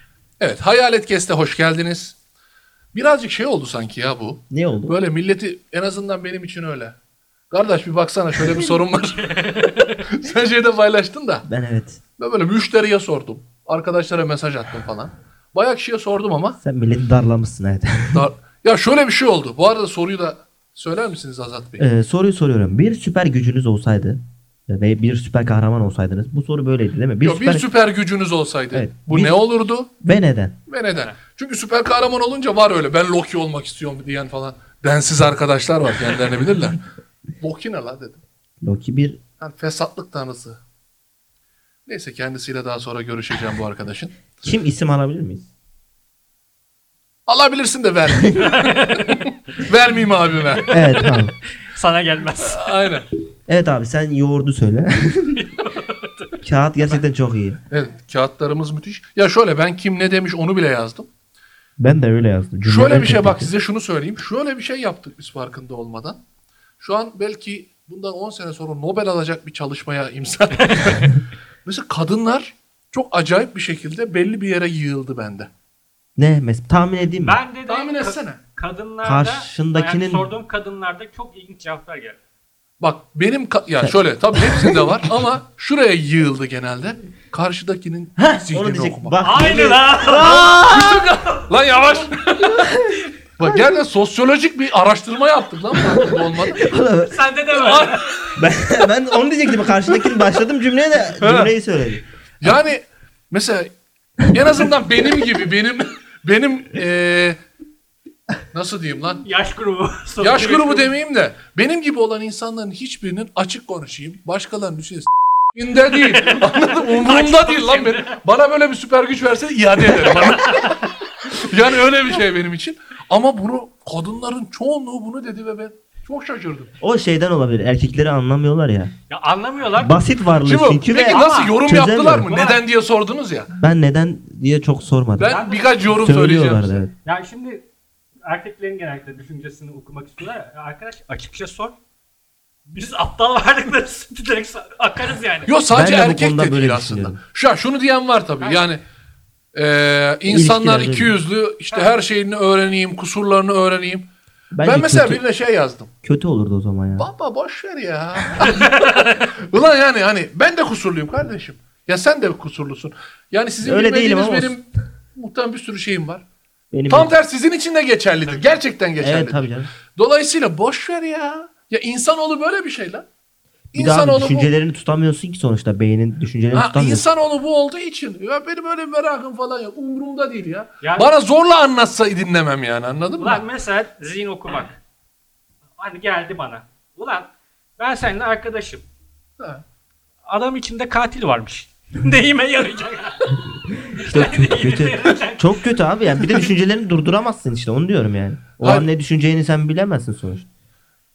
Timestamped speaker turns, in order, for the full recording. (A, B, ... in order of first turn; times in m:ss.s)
0:00.4-0:02.2 A
0:02.9-0:07.0 A
0:04.5-0:05.0 B
0:07.5-0:11.5 A
0:09.4-0:10.0 C
0:11.5-0:12.0 B
0:12.2-0:16.6 A
0:16.6-0:18.3 B
0:18.1-0:21.9 A
0:21.8-0:27.6 B
0:27.2-0:29.9 A
0:28.7-0:29.4 B
0:30.0-0:30.6 B
0:30.7-0:36.8 A
0:37.4-0:38.2 A
0:38.6-0:39.2 B
0:39.4-0:40.6 A
0:41.9-0:44.2 A
0:44.4-0:45.5 B
0:47.3-0:50.7 A
0:48.3-0:49.2 C
0:50.7-0:51.4 B
0:51.6-0:52.8 C
0:52.4-0:53.1 A
0:53.5-0:55.4 B
0:55.4-0:56.4 C
0:56.4-0:57.6 B
0:57.7-1:01.1 A
1:01.8-1:03.5 B
1:02.6-1:06.2 A
1:06.8-1:11.2 A
1:10.6-1:11.1 C
1:11.7-1:15.5 A
1:16.2-1:17.4 B
1:17.2-1:22.2 C
1:17.7-1:18.4 A
1:19.0-1:20.3 B
1:22.8-1:29.2 A
1:23.8-1:25.0 B
1:28.2-1:31.1 B
1:29.2-1:30.5 C
1:30.2-1:32.8 A
1:32.5-1:33.6 B
1:33.4-1:36.6 A
1:35.8-1:37.2 B
1:37.1-1:38.2 C
1:37.5-1:38.4 A
1:38.4-1:42.0 B
1:41.2-1:41.5 A
1:42.4-1:43.7 A
1:44.2-1:47.4 A
1:48.5-1:49.2 A
1:49.2-1:50.9 C
1:50.2-2:06.7 A
1:56.1-1:58.2 C
1:59.9-2:00.8 C
2:06.8-2:08.9 B
2:09.1-2:10.0 C
2:09.8-2:12.3 B
2:10.4-2:13.5 A
2:11.0-2:11.6 C
2:12.3-2:12.6 C
2:13.5-2:15.4 B
2:15.2-2:16.8 A
2:15.2-2:15.9 C
2:15.9-2:16.9 B
2:17.0-2:17.6 C
2:18.2-2:21.8 C
2:22.7-2:25.5 C
2:25.5-2:28.8 A
2:25.7-2:27.2 B
2:28.4-2:28.7 C
2:29.5-2:34.0 A
2:30.3-2:31.2 B
2:34.5-2:35.2 B
2:34.6-2:35.9 A
2:36.0-2:37.1 B
2:37.0-2:44.6 A
2:38.4-2:39.0 C
2:43.6-2:44.6 B
2:45.2-2:46.2 A
2:46.7-2:47.1 B
2:46.9-2:53.0 A
2:49.0-2:49.7 B
2:53.7-2:54.5 A
2:53.8-2:57.0 B
2:56.5-3:03.4 A
3:00.8-3:01.1 C
3:03.2-3:04.8 C
3:05.8-3:08.8 C
3:10.3-3:13.4 C
3:13.9-3:20.5 B
3:13.9-3:15.5 C
3:18.6-3:18.9 A